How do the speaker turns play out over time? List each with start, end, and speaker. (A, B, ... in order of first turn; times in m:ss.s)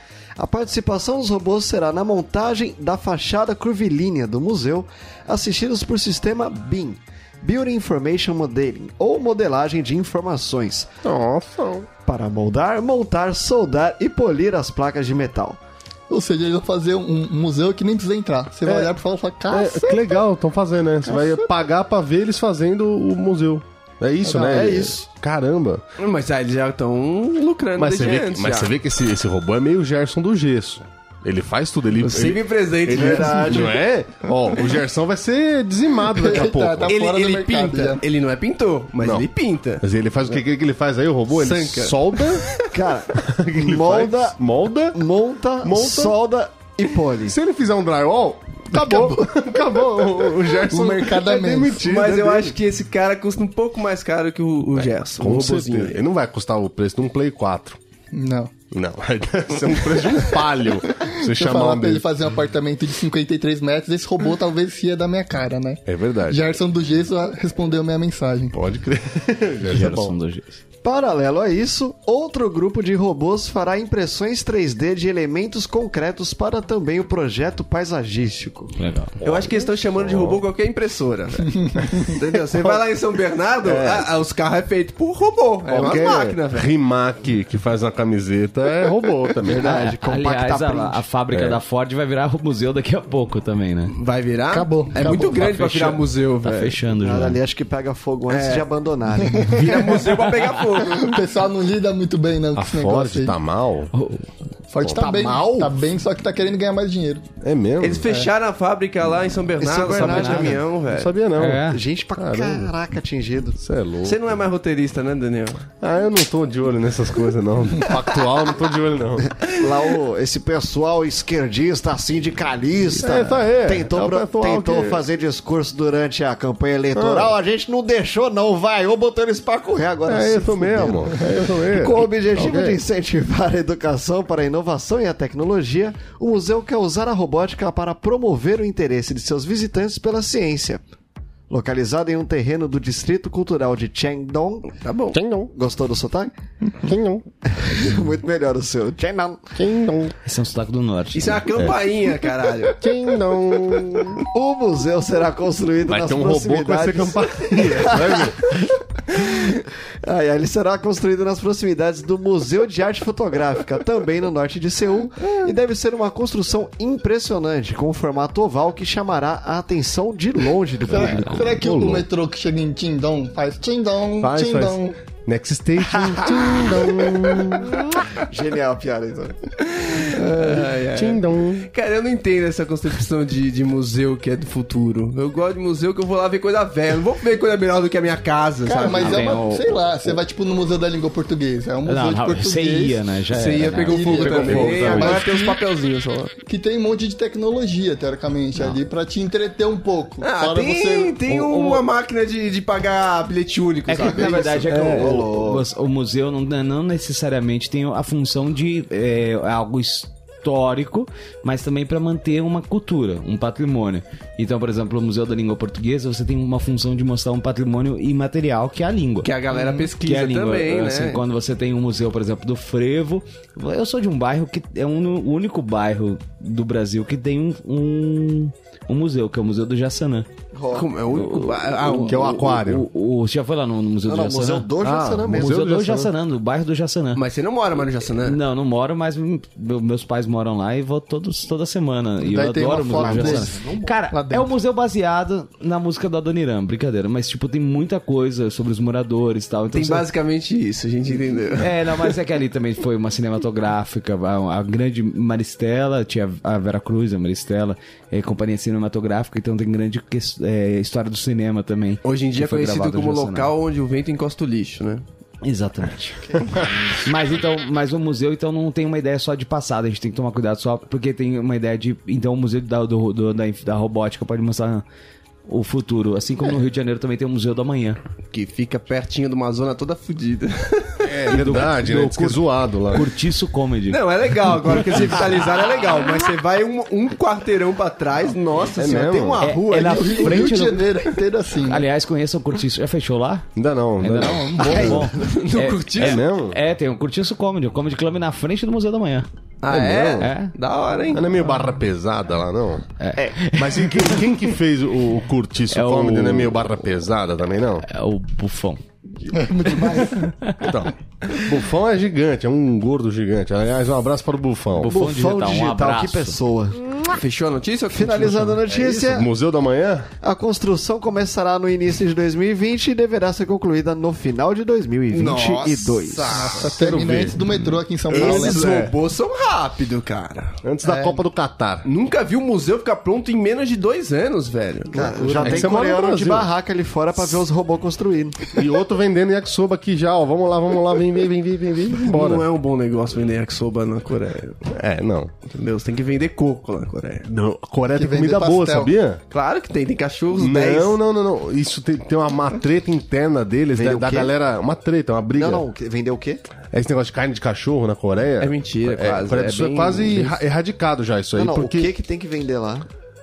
0:00.4-0:10.9 A
0:11.0-0:11.9 B
0:12.0-0:15.6 A
0:16.1-0:20.2 C
0:18.7-0:18.9 B
0:19.5-0:25.8 B
0:21.0-0:21.4 C
0:24.2-0:24.8 C
0:24.5-0:25.1 A
0:26.0-0:28.7 D
0:27.8-0:37.0 B
0:32.0-0:34.6 D
0:33.0-0:33.4 C
0:36.1-0:38.0 C
0:36.9-0:40.4 D
0:39.0-0:39.3 B
0:39.8-0:42.4 B
0:41.3-0:42.7 D
0:42.7-0:44.4 A
0:43.2-0:45.0 B
0:44.9-0:47.4 A
0:45.6-0:46.2 B
0:47.2-0:52.6 B
0:48.7-0:52.0 C
0:51.8-0:56.0 D
0:54.8-0:57.8 B
0:58.1-0:58.5 C
0:58.7-1:02.0 B
1:01.0-1:08.6 C
1:05.9-1:06.4 B
1:08.5-1:10.2 B
1:09.7-1:10.6 E
1:10.8-1:18.7 A
1:18.8-1:19.2 E
1:19.2-1:20.4 B
1:19.2-1:26.7 D
1:23.6-1:24.1 B
1:25.7-1:29.8 B
1:29.4-1:31.0 A
1:29.6-1:34.0 E
1:31.3-1:31.6 B
1:33.9-1:36.8 D
1:34.5-1:35.5 C
1:35.1-1:37.4 E
1:37.0-1:39.9 A
1:38.3-1:38.7 D
1:39.2-1:39.8 C
1:39.6-1:41.2 D
1:39.9-1:40.5 E
1:40.9-1:43.4 C
1:42.6-1:43.9 B
1:43.9-1:44.3 E
1:44.7-1:47.3 C
1:44.8-1:45.5 B
1:45.0-1:45.7 A
1:47.4-1:48.1 B
1:47.8-1:51.1 D
1:49.6-1:50.6 A
1:49.9-1:50.6 E
1:50.1-1:51.6 B
1:51.4-1:51.8 E
1:51.7-1:53.6 A
1:52.2-1:52.7 B
1:53.6-1:54.2 B
1:54.0-1:55.7 D
1:55.8-1:59.3 B
1:59.4-2:20.8 A
1:59.7-2:00.0 D
2:02.9-2:05.0 B
2:06.9-2:07.4 B
2:10.1-2:12.8 B
2:21.5-2:24.7 A
2:24.8-2:25.2 D
2:25.1-2:25.5 B
2:25.5-2:26.3 A
2:26.8-2:27.2 B
2:27.5-2:29.6 A
2:29.6-2:30.1 B
2:30.2-2:31.7 E
2:31.1-2:32.8 D
2:32.8-2:34.2 B
2:34.3-2:51.6 A
2:35.9-2:38.4 B
2:50.9-2:55.0 C
2:51.0-2:51.4 E
2:51.5-2:52.0 B
2:54.2-2:57.7 B
2:58.2-2:59.4 A
2:59.7-3:09.4 D
3:00.1-3:00.7 C
3:00.9-3:01.7 B
3:08.6-3:13.0 C
3:08.8-3:09.8 E
3:11.9-3:15.2 E
3:13.3-3:16.3 D
3:13.9-3:15.6 C
3:14.5-3:15.1 B
3:16.5-3:21.2 C
3:20.2-3:24.5 D
3:21.3-3:21.8 E
3:23.9-3:39.4 E
3:24.1-3:25.6 A
3:24.7-3:25.1 B
3:39.2-3:41.2 D
3:40.0-3:50.3 E
3:50.5-3:50.9 A
3:50.7-3:52.4 D
3:51.1-3:54.7 E
3:52.1-3:52.9 B
3:54.0-3:55.6 A
3:54.8-3:56.1 B
3:55.2-3:57.2 E
3:57.2-3:58.4 D
3:58.2-4:10.1 E
4:02.2-4:04.6 C
4:02.9-4:03.9 A
4:09.7-4:12.1 D
4:11.6-4:23.5 E
4:22.0-4:25.0 D
4:25.4-4:26.3 E
4:27.0-4:34.8 E
4:35.5-4:38.0 E
4:38.3-4:41.1 D
4:41.0-4:43.1 B
4:41.3-4:44.0 E
4:43.9-4:50.6 D
4:44.7-4:45.2 E
4:48.8-4:49.5 B
4:49.4-4:50.9 E
4:49.8-4:51.9 C
4:51.6-4:53.5 E
4:53.6-4:55.1 B
4:54.0-4:59.3 E
4:54.7-4:56.2 D
4:56.0-4:56.6 B
4:59.6-5:01.3 D
4:59.7-5:00.3 B
5:00.2-5:00.5 E
5:01.1-5:02.8 B
5:03.0-5:04.5 E
5:03.5-5:07.8 B
5:05.7-5:06.6 E
5:07.8-5:08.8 E
5:09.3-5:10.3 C
5:10.1-5:10.8 E
5:10.6-5:14.9 B
5:14.8-5:16.4 E
5:14.9-5:17.0 A
5:17.1-5:18.6 D
5:17.9-5:19.3 A
5:18.7-5:20.1 B
5:20.2-5:26.5 A
5:25.1-5:26.7 D
5:26.3-5:28.7 C
5:26.4-5:27.6 B
5:28.1-5:30.6 D
5:28.1-5:28.9 B
5:30.6-5:31.9 B
5:30.8-5:31.2 C
5:31.8-5:35.7 D
5:34.9-5:38.5 A
5:35.0-5:36.5 B
5:38.5-5:42.5 B
5:42.0-5:44.7 D
5:44.7-5:45.3 B
5:45.5-5:47.3 D
5:47.3-5:49.2 B
5:47.9-5:48.9 C
5:49.3-5:51.0 D
5:50.4-5:55.7 B
5:53.8-5:54.4 A
5:55.3-5:56.4 A
5:56.7-6:01.9 B
5:58.4-6:00.4 D
6:01.4-6:02.9 A